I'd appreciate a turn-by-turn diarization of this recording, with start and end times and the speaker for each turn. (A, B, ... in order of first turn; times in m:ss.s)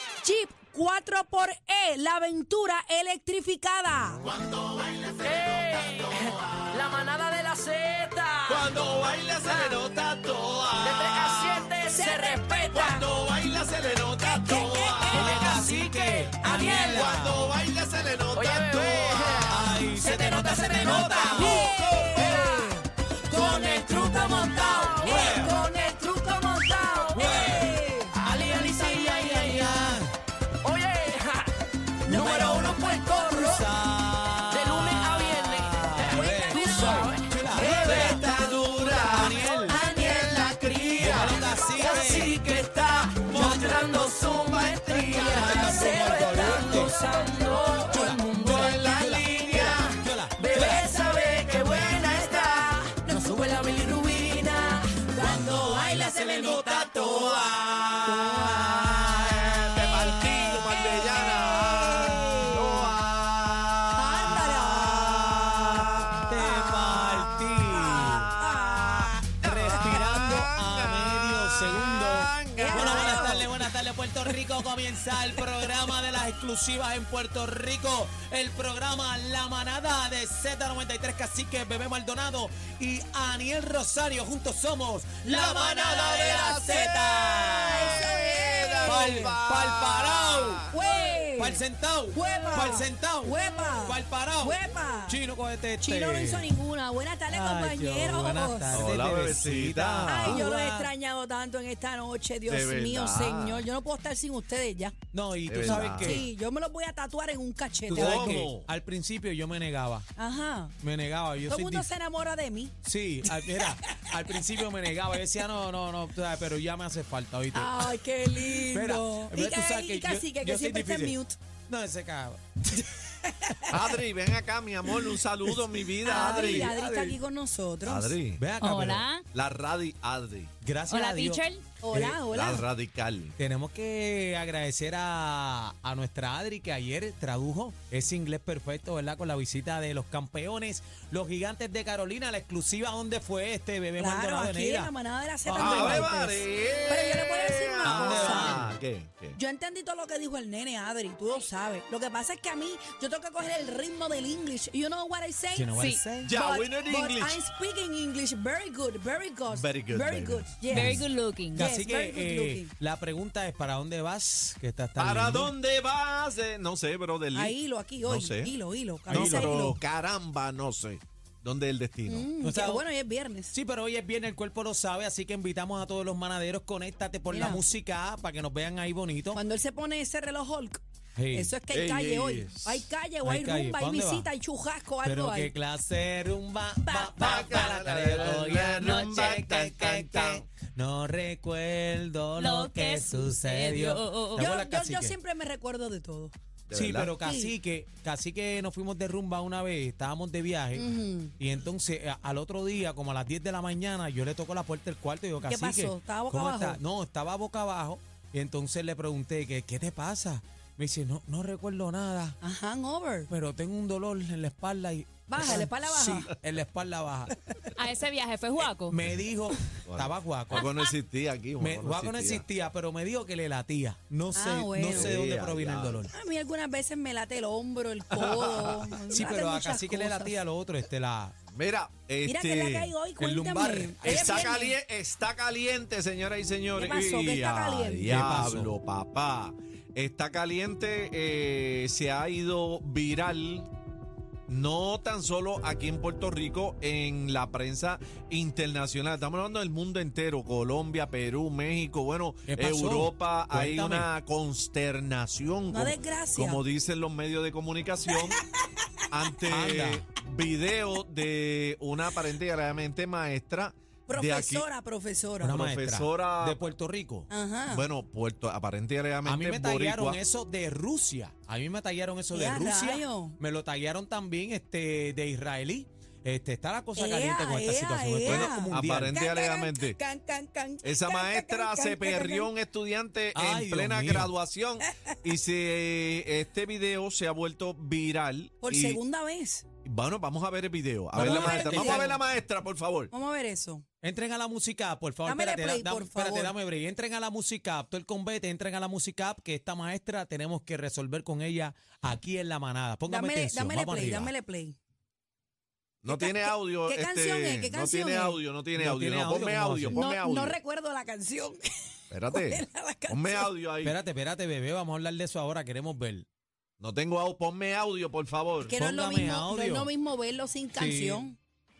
0:00.2-0:04.2 A
0:05.2-0:08.7 B
0:08.5-0:11.7 C
0:09.4-0:09.8 B
0:10.8-0:12.9 B
0:11.8-0:13.0 A
0:12.7-0:15.6 C
0:14.2-0:17.0 A
0:15.1-0:17.4 D
0:16.4-0:19.8 C
0:18.3-0:19.5 B
0:19.4-0:21.8 D
0:20.0-0:29.5 A
0:21.2-0:22.8 B
0:21.6-0:22.5 C
0:23.3-0:25.9 B
0:25.0-0:25.5 D
0:26.8-0:27.5 B
0:27.1-0:30.1 D
0:28.2-0:30.0 B
0:30.6-0:31.5 B
0:32.0-0:33.7 A
0:32.1-0:38.3 D
0:34.5-0:37.3 B
0:36.1-0:38.6 A
0:37.5-0:45.9 C
0:38.9-0:39.8 D
0:39.6-0:42.0 A
0:41.0-0:42.4 D
0:42.2-0:48.7 B
0:43.3-0:43.8 D
0:44.8-0:59.2 A
0:45.2-0:47.0 D
0:47.9-0:50.8 D
0:48.5-0:49.9 C
0:50.6-0:52.8 C
0:54.3-0:54.7 B
0:55.2-0:56.9 D
0:56.6-0:57.6 C
0:57.7-0:59.7 D
0:59.1-1:03.1 C
0:59.8-1:02.8 A
1:01.6-1:08.3 D
1:03.9-1:05.3 A
1:06.3-1:10.5 A
1:07.7-1:13.6 C
1:09.3-1:28.1 D
1:12.6-1:13.5 A
1:25.2-1:30.7 C
1:26.5-1:29.3 A
1:28.9-1:36.5 D
1:30.7-1:35.2 A
1:35.8-1:38.9 A
1:37.3-1:40.9 D
1:38.7-1:40.4 C
1:40.0-1:44.9 A
1:42.5-1:43.7 C
1:45.1-1:46.3 D
1:45.4-1:46.2 C
1:45.6-1:48.4 A
1:47.9-1:48.7 C
1:47.9-1:50.1 D
1:50.2-1:50.8 A
1:50.8-1:51.9 D
1:51.4-1:52.7 A
1:52.8-1:57.9 D
1:53.5-1:54.0 A
1:57.5-2:01.4 A
1:58.4-2:02.4 D
2:03.2-2:03.8 A
2:03.7-2:07.2 C
2:06.0-2:08.2 A
2:06.1-2:06.7 D
2:07.8-2:08.4 C
2:08.4-2:09.0 D
2:08.6-2:09.2 E
2:09.3-2:10.5 C
2:10.6-2:12.2 D
2:10.9-2:11.7 E
2:11.8-2:12.7 A
2:12.3-2:13.4 C
2:13.4-2:24.9 D
2:24.0-2:28.6 A
2:25.4-2:26.1 D
2:25.5-2:29.4 C
2:27.8-2:28.7 D
2:29.4-2:35.7 A
2:35.5-2:36.3 D
2:35.7-2:36.0 E
2:36.2-2:37.4 C
2:36.3-2:40.9 A
2:39.5-2:41.0 C
2:40.7-2:45.5 D
2:40.7-2:41.7 E
2:41.5-2:42.7 A
2:45.0-2:48.5 C
2:47.3-2:49.8 A
2:49.1-2:52.3 C
2:49.1-2:49.6 D
2:52.1-2:53.5 A
2:52.4-2:52.8 D
2:53.5-2:59.4 D
2:57.3-2:57.6 A
2:59.3-3:00.8 A
3:01.2-3:01.5 D
3:01.3-3:05.5 A
3:01.7-3:02.9 C
3:03.2-3:04.3 D
3:05.0-3:15.2 D
3:06.8-3:07.6 A
3:07.2-3:10.5 C
3:08.8-3:09.4 E
3:12.4-3:14.5 E
3:14.4-3:16.3 A
3:16.7-3:17.1 C
3:16.7-3:32.4 D
3:17.2-3:17.5 A
3:20.7-3:21.3 A
3:25.5-3:26.8 A
3:32.4-3:33.3 A
3:33.3-3:37.3 D
3:35.3-3:36.3 A
3:37.8-3:39.0 E
3:38.9-3:40.7 D
3:39.8-3:42.4 C
3:41.6-3:46.1 D
3:44.3-3:45.1 A
3:44.9-3:46.0 C
3:46.1-3:50.3 A
3:48.1-3:48.9 C
3:49.1-3:51.3 D
3:51.5-3:52.9 C
3:52.2-3:54.8 A
3:53.2-3:54.4 D
3:54.0-4:03.7 C
3:56.7-3:58.1 A
3:58.0-3:58.7 D
4:04.5-4:18.4 C
4:12.5-4:14.1 D
4:15.7-4:16.6 A
4:19.1-4:24.6 C
4:19.5-4:20.1 D
4:24.1-4:25.6 A
4:25.4-4:27.3 D
4:25.4-4:26.6 C
4:27.3-4:27.8 A
4:27.7-4:30.2 C
4:29.2-4:39.2 D
4:32.3-4:33.4 A
4:37.0-4:42.5 A
4:38.2-4:40.0 C
4:40.8-4:49.0 C
4:43.3-4:44.3 D
4:48.6-4:49.7 A
4:49.8-4:53.1 C
4:51.1-4:52.2 D
4:51.2-4:52.1 A
4:53.1-4:53.8 A
4:54.0-5:04.3 D
4:55.2-4:56.5 A
5:03.1-5:04.8 A
5:06.0-5:10.6 C
5:06.1-5:08.4 A
5:08.7-5:10.0 D
5:09.9-5:13.5 A
5:12.1-5:14.0 C
5:13.8-5:16.3 D
5:16.8-5:18.7 C
5:18.6-5:21.4 A
5:18.8-5:19.9 D
5:20.8-5:21.3 D